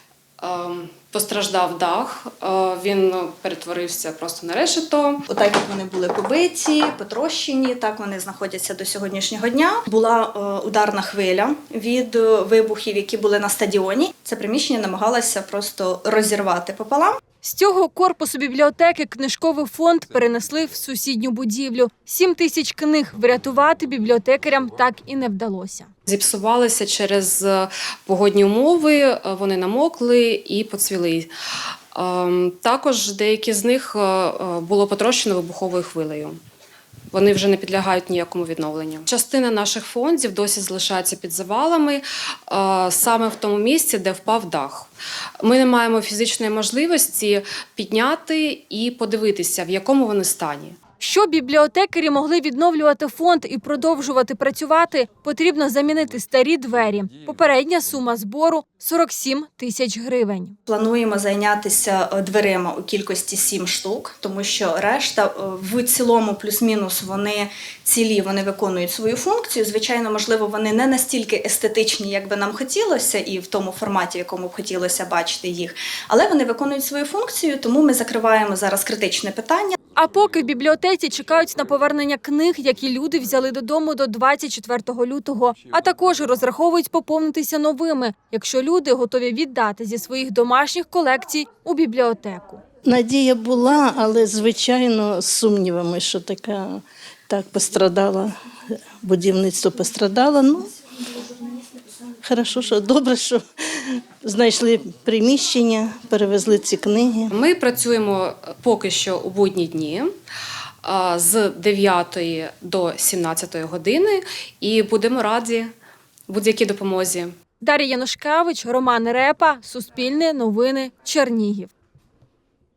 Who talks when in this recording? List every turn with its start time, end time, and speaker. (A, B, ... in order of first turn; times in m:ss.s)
0:00.4-0:05.3 A
0:05.3-0:17.2 B
0:17.4-0:25.9 C
0:26.1-0:31.3 A
0:31.9-0:36.4 A
0:37.1-0:44.9 A
0:45.4-0:50.8 A
0:51.0-1:00.6 C
1:00.7-1:19.8 B
1:19.9-1:32.6 C
1:32.8-1:38.3 D
1:39.0-1:40.7 D
1:42.2-1:43.4 D
1:44.2-1:47.3 D
1:47.3-1:50.2 A
1:50.8-1:55.7 A
1:56.3-1:57.4 A
1:57.6-2:01.7 C